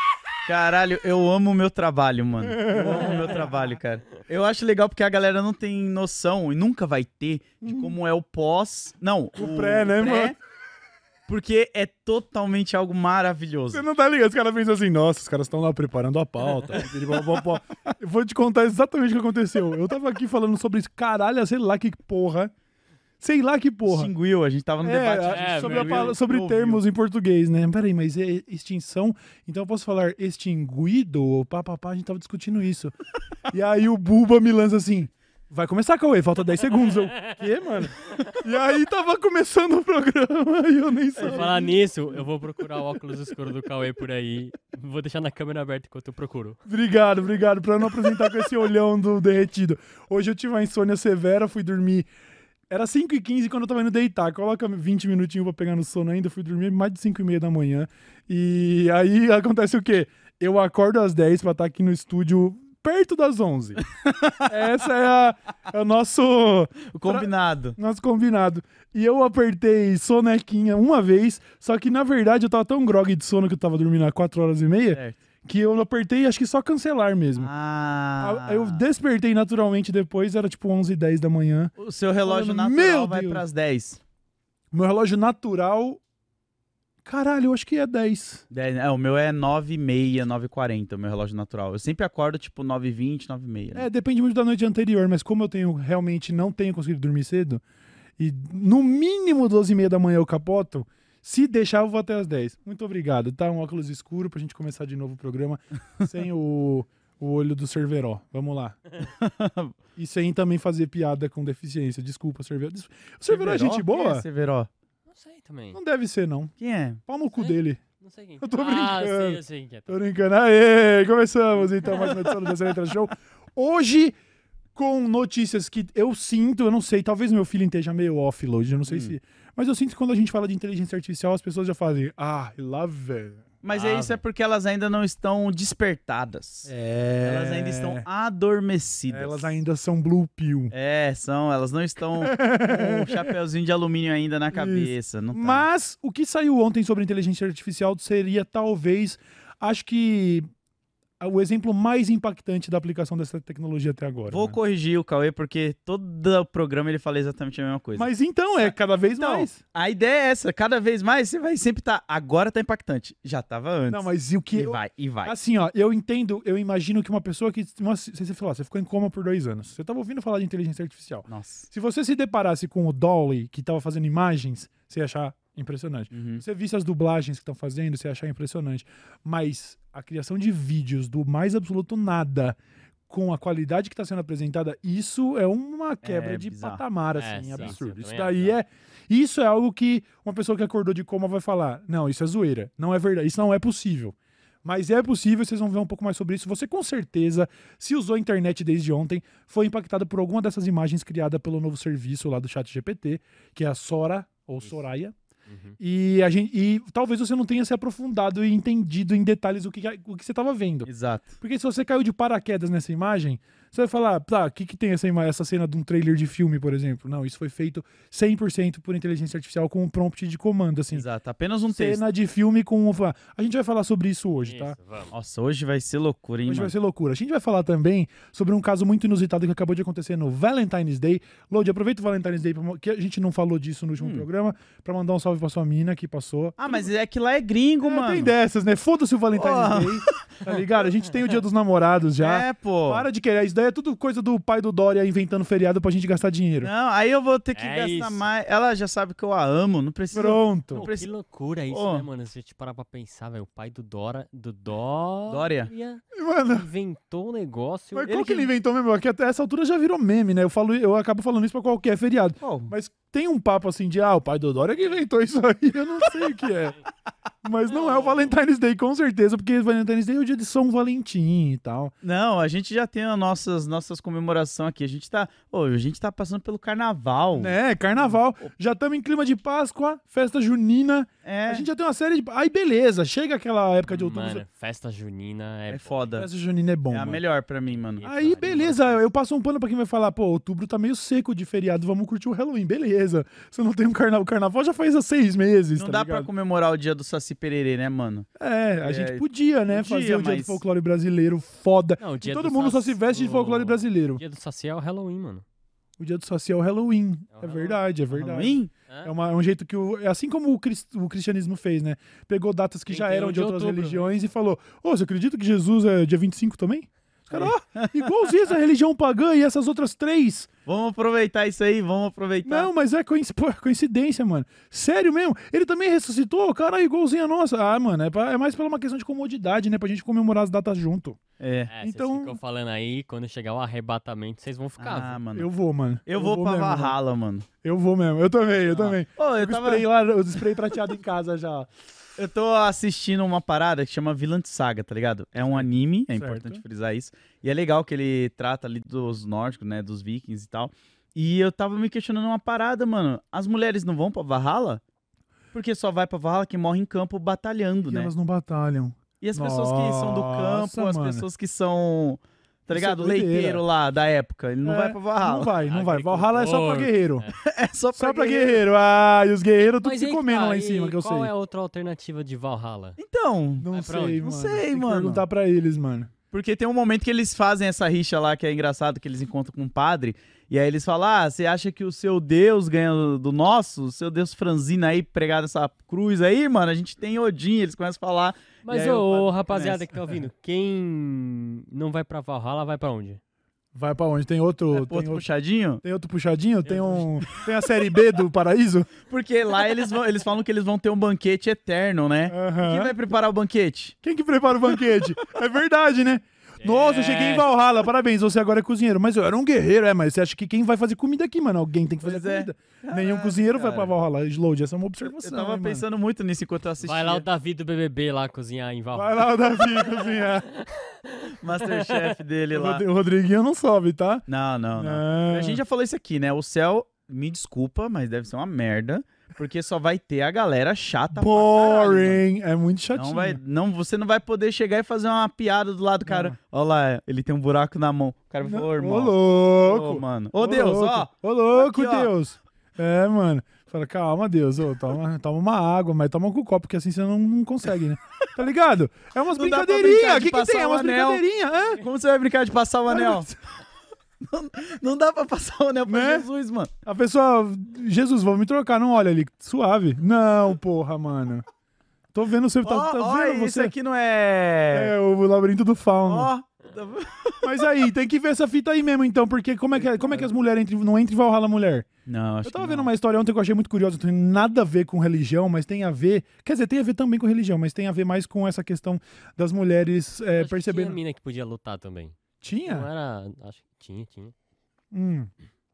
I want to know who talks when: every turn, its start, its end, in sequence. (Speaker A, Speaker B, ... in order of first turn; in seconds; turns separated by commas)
Speaker A: 0.4-10.3, Speaker B: 2.4-3.5, Speaker B: 7.6-8.0, Speaker B: 9.3-10.3, Speaker A: 11.3-13.8, Speaker B: 13.7-22.5, Speaker B: 23.2-24.1, Speaker A: 23.9-26.8, Speaker B: 24.8-32.9, Speaker C: 25.3-26.1, Speaker B: 33.5-41.6, Speaker C: 37.2-37.4, Speaker A: 41.1-41.7, Speaker C: 41.2-46.6, Speaker B: 46.6-52.1, Speaker B: 52.7-63.8, Speaker A: 63.8-64.5, Speaker B: 64.5-77.5, Speaker A: 66.9-67.8, Speaker A: 74.9-75.2, Speaker A: 77.4-78.8, Speaker B: 78.2-81.7, Speaker A: 81.8-84.0, Speaker B: 82.2-83.4, Speaker B: 84.7-86.0, Speaker B: 87.0-88.4, Speaker A: 88.5-93.8, Speaker B: 93.7-97.6, Speaker B: 98.2-108.8, Speaker A: 109.0-109.8, Speaker B: 110.0-114.2, Speaker A: 113.3-114.7, Speaker C: 115.1-115.8, Speaker B: 115.7-116.5, Speaker A: 116.6-117.0, Speaker B: 117.1-117.8, Speaker C: 117.3-120.0, Speaker B: 118.4-124.2, Speaker A: 121.9-122.7, Speaker B: 124.7-133.4, Speaker A: 128.9-129.1, Speaker A: 133.6-136.7, Speaker C: 133.7-134.2, Speaker B: 136.7-138.1, Speaker A: 137.2-139.5, Speaker B: 139.1-140.7, Speaker A: 140.7-145.6, Speaker B: 142.2-143.3, Speaker B: 144.5-150.4, Speaker B: 151.2-154.6, Speaker A: 154.3-158.1, Speaker B: 157.9-159.6, Speaker A: 158.6-165.3, Speaker B: 163.9-182.6, Speaker A: 171.3-171.7, Speaker A: 176.1-176.4, Speaker B: 183.1-205.1, Speaker A: 186.0-186.8, Speaker C: 187.2-188.6, Speaker A: 187.4-187.7, Speaker C: 205.5-205.8, Speaker B: 205.8-210.9, Speaker A: 210.8-211.3, Speaker B: 211.4-221.0, Speaker A: 220.9-222.0, Speaker B: 221.7-224.8, Speaker C: 224.4-225.1, Speaker A: 225.1-226.7, Speaker B: 226.4-236.9, Speaker A: 234.0-234.2, Speaker A: 236.6-238.3, Speaker B: 237.8-246.7, Speaker A: 239.3-240.2, Speaker A: 242.2-243.0, Speaker A: 246.6-251.1, Speaker C: 247.5-248.2, Speaker B: 250.1-250.9, Speaker C: 250.7-258.1, Speaker A: 251.7-252.1, Speaker A: 255.3-255.7, Speaker B: 256.1-256.7, Speaker B: 257.9-266.8, Speaker A: 258.1-258.5, Speaker A: 262.4-262.7, Speaker B: 267.4-271.9, Speaker C: 267.7-268.2, Speaker A: 272.0-278.5, Speaker B: 277.3-284.4, Speaker A: 281.2-281.7, Speaker C: 283.9-286.2, Speaker A: 285.7-286.3, Speaker B: 286.1-287.2, Speaker A: 286.9-288.5, Speaker C: 287.7-289.0, Speaker B: 288.0-296.3, Speaker A: 295.8-298.3, Speaker B: 298.4-304.2, Speaker A: 298.8-300.6, Speaker C: 302.0-305.4, Speaker B: 306.0-320.5, Speaker C: 307.4-307.8, Speaker A: 308.1-308.7, Speaker C: 312.9-314.1, Speaker A: 317.3-318.1, Speaker A: 320.6-322.7, Speaker B: 322.4-331.2, Speaker A: 331.4-331.7, Speaker C: 331.7-335.2, Speaker B: 331.8-332.4, Speaker A: 334.8-335.5, Speaker B: 335.3-336.9, Speaker A: 336.1-337.5, Speaker B: 337.6-341.8, Speaker A: 339.1-339.8, Speaker A: 342.2-354.8, Speaker B: 346.1-346.6, Speaker A: 355.5-358.1, Speaker B: 357.9-361.2, Speaker A: 359.2-365.6, Speaker B: 362.7-363.6, Speaker B: 364.6-367.3, Speaker C: 365.6-367.4, Speaker A: 367.4-368.6, Speaker B: 367.9-371.3, Speaker C: 369.8-373.0, Speaker A: 373.0-375.2, Speaker B: 373.6-376.1, Speaker C: 373.7-374.2, Speaker A: 376.3-389.8, Speaker C: 388.6-393.2, Speaker B: 393.7-395.2, Speaker A: 394.7-395.8, Speaker B: 395.8-398.9, Speaker C: 396.6-397.0, Speaker A: 399.1-403.9, Speaker B: 402.3-402.9, Speaker B: 404.0-415.8, Speaker A: 404.6-405.3, Speaker C: 406.6-407.5, Speaker A: 412.0-413.9, Speaker A: 415.1-417.2, Speaker C: 416.8-422.1, Speaker B: 418.9-420.5, Speaker A: 421.3-422.8, Speaker B: 422.5-424.2, Speaker A: 424.3-432.2, Speaker B: 424.8-425.6, Speaker B: 431.1-433.4, Speaker A: 432.9-442.1, Speaker B: 436.1-436.4, Speaker B: 438.4-451.8, Speaker A: 449.3-451.2, Speaker A: 451.8-453.3, Speaker B: 452.9-453.3, Speaker A: 454.2-456.7, Speaker B: 455.9-456.3, Speaker B: 456.8-461.4, Speaker B: 462.1-463.7, Speaker A: 462.6-464.9, Speaker B: 464.7-466.3, Speaker A: 466.1-467.7, Speaker B: 467.4-471.9, Speaker A: 472.1-472.9, Speaker B: 472.4-481.0, Speaker C: 480.3-484.3, Speaker B: 482.4-482.9, Speaker B: 484.9-485.3